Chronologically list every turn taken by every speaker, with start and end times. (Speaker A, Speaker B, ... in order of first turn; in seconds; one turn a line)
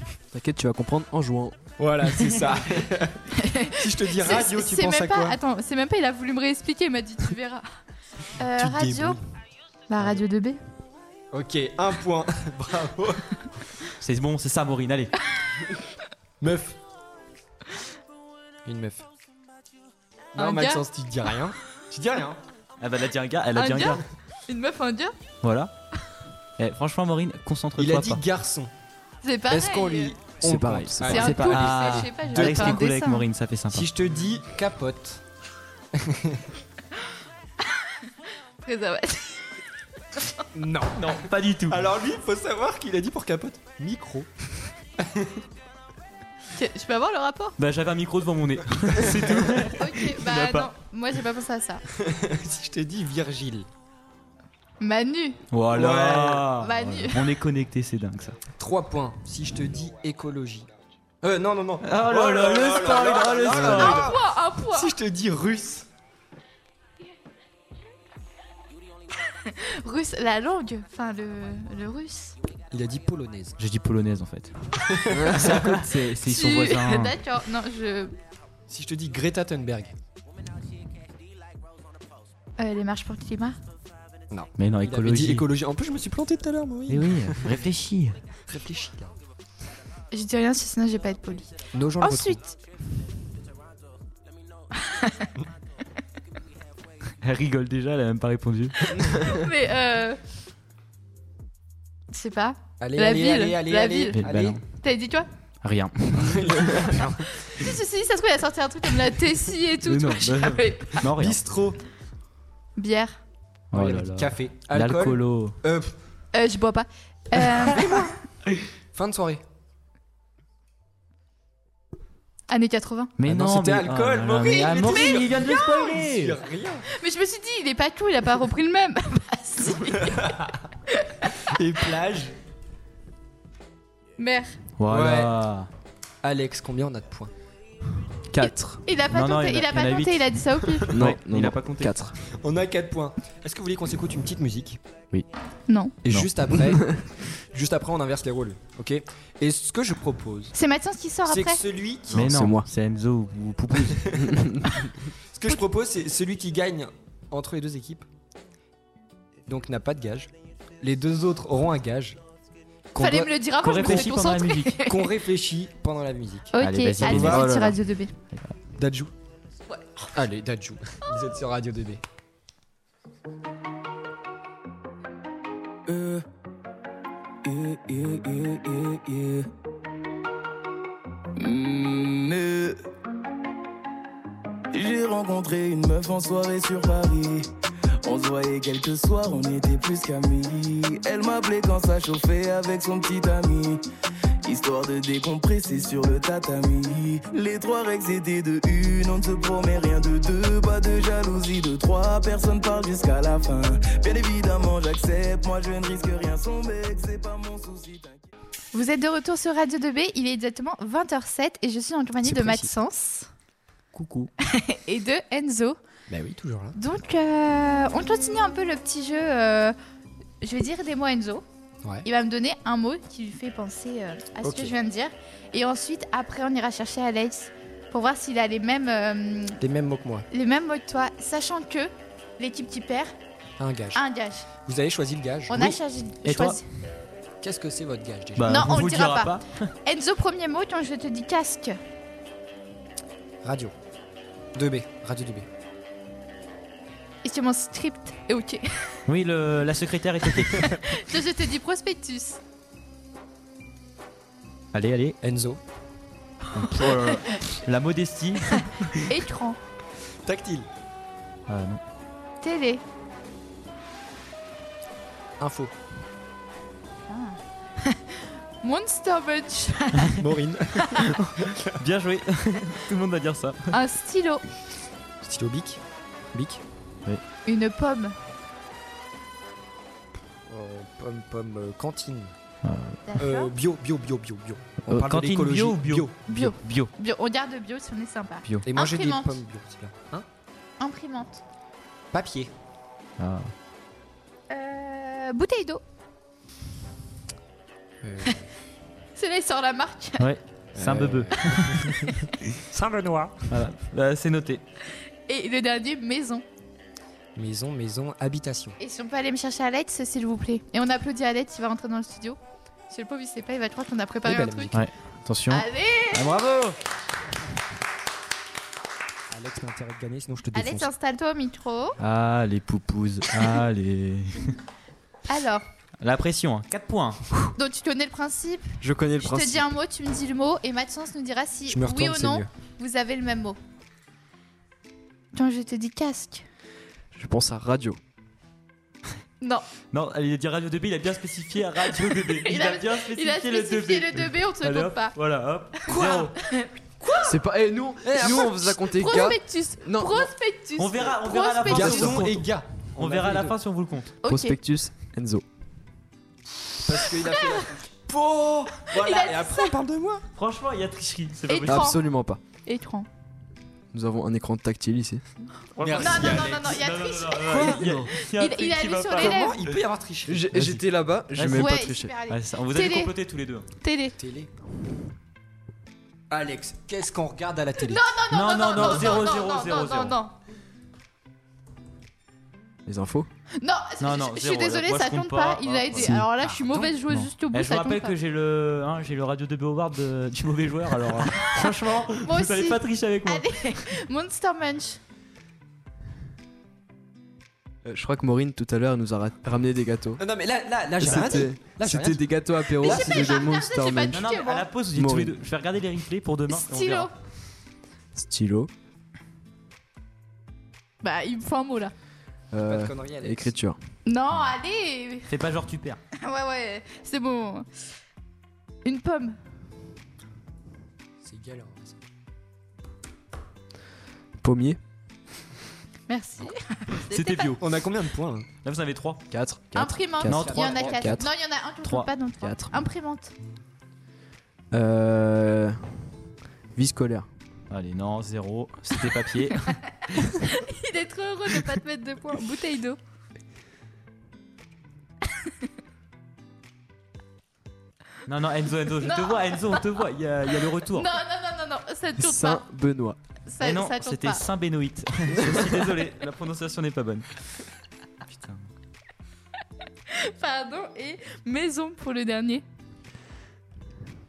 Speaker A: 0.3-1.5
Speaker B: 1.8-5.4
Speaker C: 3.4-7.7
Speaker C: 8.3-9.2
Speaker B: 8.4-9.2
Speaker C: 9.9-10.6
Speaker B: 11.3-13.4
Speaker D: 14.0-15.1
Speaker B: 16.4-16.8
Speaker B: 18.6-19.1
Speaker B: 20.3-22.4
Speaker C: 20.4-20.8
Speaker D: 22.8-24.0
Speaker C: 23.5-25.1
Speaker D: 25.4-25.7
Speaker D: 26.6-28.2
Speaker B: 27.8-28.7
Speaker C: 29.2-30.2
Speaker B: 29.5-32.9
Speaker A: 30.4-31.8
Speaker C: 31.0-33.2
Speaker D: 31.1-33.9
Speaker B: 33.7-35.2
Speaker B: 35.9-36.5
Speaker C: 38.6-39.5
Speaker B: 40.5-45.4
Speaker D: 41.0-41.8
Speaker C: 46.5-47.5
Speaker D: 47.6-50.7
Speaker C: 49.7-51.8
Speaker B: 51.9-53.7
Speaker C: 54.8-55.4
Speaker D: 55.5-58.4
Speaker B: 55.7-56.5
Speaker C: 56.6-57.3
Speaker B: 58.5-60.7
Speaker B: 61.2-65.9
Speaker D: 61.8-64.1
Speaker C: 63.6-64.9
Speaker C: 69.3-72.3
Speaker B: 72.7-73.6
Speaker D: 73.6-74.5
Speaker B: 74.8-75.9
Speaker A: 75.1-75.5
Speaker D: 75.3-77.2
Speaker C: 76.2-78.1
Speaker B: 78.7-79.9
Speaker C: 82.6-83.6
Speaker B: 84.3-87.6
Speaker D: 84.6-85.5
Speaker D: 86.9-88.2
Speaker B: 88.5-89.2
Speaker C: 90.1-92.5
Speaker B: 91.7-92.4
Speaker C: 94.8-95.3
Speaker D: 97.2-99.0
Speaker C: 98.9-100.2
Speaker C: 102.1-104.2
Speaker B: 102.8-104.6
Speaker D: 104.1-104.6
Speaker C: 104.8-105.3
Speaker D: 105.6-106.9
Speaker B: 106.2-107.4
Speaker C: 107.3-111.0
Speaker D: 109.8-111.4
Speaker B: 111.1-111.8
Speaker C: 112.8-113.2
Speaker D: 113.7-115.5
Speaker B: 113.7-115.9
Speaker C: 116.3-118.0
Speaker B: 117.4-118.1
Speaker B: 118.9-119.4
Speaker C: 122.5-123.1
Speaker D: 123.2-126.4
Speaker B: 123.2-126.8
Speaker C: 124.5-125.5
Speaker C: 126.9-130.3
Speaker B: 130.0-130.6
Speaker C: 130.9-131.3
Speaker B: 131.5-132.3
Speaker C: 134.2-134.6
Speaker D: 134.8-135.7
Speaker B: 134.8-135.3
Speaker B: 136.2-137.3
Speaker A: 138.3-138.8
Speaker C: 138.4-140.9
Speaker D: 139.1-142.1
Speaker A: 140.9-142.1
Speaker B: 142.3-144.8
Speaker C: 145.7-145.9
Speaker B: 146.1-150.5
Speaker A: 146.7-147.0
Speaker C: 150.5-151.6
Speaker B: 151.2-152.3
Speaker A: 152.1-152.7
Speaker D: 152.1-154.2
Speaker A: 154.3-154.6
Speaker B: 155.3-158.1
Speaker B: 159.4-162.2
Speaker B: 162.9-164.1
Speaker C: 163.0-165.1
Speaker D: 163.6-164.8
Speaker B: 164.8-167.4
Speaker C: 166.5-168.1
Speaker D: 166.6-167.6
Speaker A: 167.2-167.7
Speaker B: 168.8-169.1
Speaker B: 170.1-172.0
Speaker E: 175.9-176.2
Speaker E: 177.4-179.5
Speaker E: 181.4-182.8
Speaker E: 184.7-187.5
Speaker E: 188.0-193.8
Speaker E: 194.4-208.2
Speaker C: 208.7-213.3
Speaker B: 212.2-212.7
Speaker D: 213.9-214.3
Speaker C: 214.4-215.8
Speaker B: 216.1-216.8
Speaker C: 216.8-219.8
Speaker C: 220.4-221.4
Speaker C: 222.0-229.6
Speaker B: 224.4-224.7
Speaker B: 229.6-230.3
Speaker C: 230.3-233.1
Speaker B: 233.6-234.0
Speaker C: 233.9-234.5
Speaker B: 234.6-235.8
Speaker C: 235.5-236.6
Speaker D: 236.2-236.6
Speaker B: 237.4-238.5
Speaker D: 238.4-239.7
Speaker C: 238.4-241.8
Speaker B: 243.4-243.7
Speaker B: 244.5-245.5
Speaker C: 247.2-249.0
Speaker D: 249.1-250.7
Speaker C: 250.5-252.4
Speaker D: 254.7-255.2
Speaker B: 255.2-255.6
Speaker D: 256.5-259.0
Speaker C: 257.1-257.4
Speaker C: 258.9-259.6
Speaker B: 260.2-260.7
Speaker D: 261.5-261.8
Speaker C: 262.4-262.8
Speaker B: 265.4-265.7
Speaker C: 267.1-270.1
Speaker B: 270.2-271.8
Speaker D: 271.7-273.8
Speaker C: 273.7-274.4
Speaker B: 275.2-275.8
Speaker B: 276.3-276.6
Speaker C: 277.4-278.1
Speaker B: 280.5-282.3
Speaker D: 282.6-283.0
Speaker C: 283.1-283.5
Speaker B: 283.2-286.1
Speaker D: 284.9-286.9
Speaker C: 286.3-289.4
Speaker B: 288.6-290.2
Speaker C: 290.8-291.4
Speaker B: 292.1-292.5
Speaker D: 293.2-293.5
Speaker C: 294.5-295.8
Speaker B: 298.0-298.5
Speaker C: 299.1-300.3
Speaker D: 300.2-302.0
Speaker B: 300.7-301.9
Speaker C: 301.5-302.1
Speaker B: 302.8-303.3
Speaker D: 303.5-304.6
Speaker C: 305.3-306.4
Speaker B: 307.4-308.8
Speaker C: 308.8-312.4
Speaker C: 312.9-314.7
Speaker B: 314.2-314.8
Speaker D: 314.7-316.8
Speaker C: 315.5-316.3
Speaker B: 319.3-320.9
Speaker C: 320.5-322.0
Speaker D: 322.0-324.6
Speaker C: 325.3-325.6
Speaker D: 326.0-327.2
Speaker C: 327.6-333.6
Speaker A: 328.8-329.7
Speaker B: 331.7-332.5
Speaker C: 335.3-336.4
Speaker A: 337.1-338.0
Speaker C: 339.4-339.7
Speaker D: 339.9-346.4
Speaker C: 341.9-345.1
Speaker B: 345.9-346.3
Speaker C: 346.4-347.1
Speaker B: 347.0-347.3
Speaker A: 347.2-350.3
Speaker B: 348.0-348.8
Speaker C: 348.9-352.2
Speaker D: 350.8-354.1
Speaker B: 351.6-353.6
Speaker C: 354.2-354.6
Speaker A: 354.2-355.4
Speaker B: 356.8-360.2
Speaker C: 357.3-357.6
Speaker C: 358.9-359.7
Speaker D: 360.3-361.8
Speaker C: 361.5-362.0
Speaker A: 361.6-362.4
Speaker C: 362.6-363.1
Speaker A: 363.9-365.2
Speaker D: 365.8-369.7
Speaker B: 365.8-366.8
Speaker C: 365.9-369.6
Speaker B: 367.5-368.0
Speaker A: 367.7-368.0
Speaker B: 369.1-370.8
Speaker A: 370.3-372.1
Speaker D: 370.5-370.8
Speaker D: 371.3-371.7
Speaker C: 371.5-373.1
Speaker D: 372.3-373.6
Speaker C: 373.8-374.1
Speaker B: 374.2-374.5
Speaker B: 376.3-378.1
Speaker C: 377.9-380.3
Speaker D: 378.3-380.2
Speaker B: 378.7-379.2
Speaker A: 382.9-383.3
Speaker C: 383.6-388.1
Speaker D: 384.0-386.2
Speaker B: 386.4-386.9
Speaker D: 387.1-393.5
Speaker C: 392.2-395.0
Speaker A: 397.8-400.2
Speaker B: 400.2-402.3
Speaker A: 401.0-404.2
Speaker C: 402.8-404.6
Speaker B: 402.8-403.3
Speaker D: 404.1-407.1
Speaker A: 404.9-405.4
Speaker C: 406.5-407.1
Speaker A: 408.1-408.7
Speaker C: 411.0-411.9
Speaker A: 412.5-413.8
Speaker B: 412.6-413.5
Speaker C: 414.1-415.3
Speaker D: 415.3-416.0
Speaker C: 416.2-417.7
Speaker C: 418.8-419.4
Speaker B: 421.2-422.0
Speaker A: 424.4-424.8
Speaker C: 426.1-427.6
Speaker D: 427.1-427.6
Speaker B: 427.6-428.5
Speaker D: 428.6-429.2
Speaker A: 429.3-431.2
Speaker C: 429.7-433.3
Speaker D: 430.3-430.8
Speaker B: 430.4-431.1
Speaker D: 431.8-432.1
Speaker A: 432.4-432.8
Speaker A: 434.7-435.8
Speaker A: 436.7-437.3
Speaker D: 437.7-439.8
Speaker C: 440.1-443.0
Speaker D: 448.2-451.2
Speaker C: 449.0-449.8
Speaker C: 450.9-452.6
Speaker A: 452.2-453.2
Speaker C: 453.5-454.4
Speaker D: 453.6-457.3
Speaker D: 458.3-458.7
Speaker C: 460.1-462.6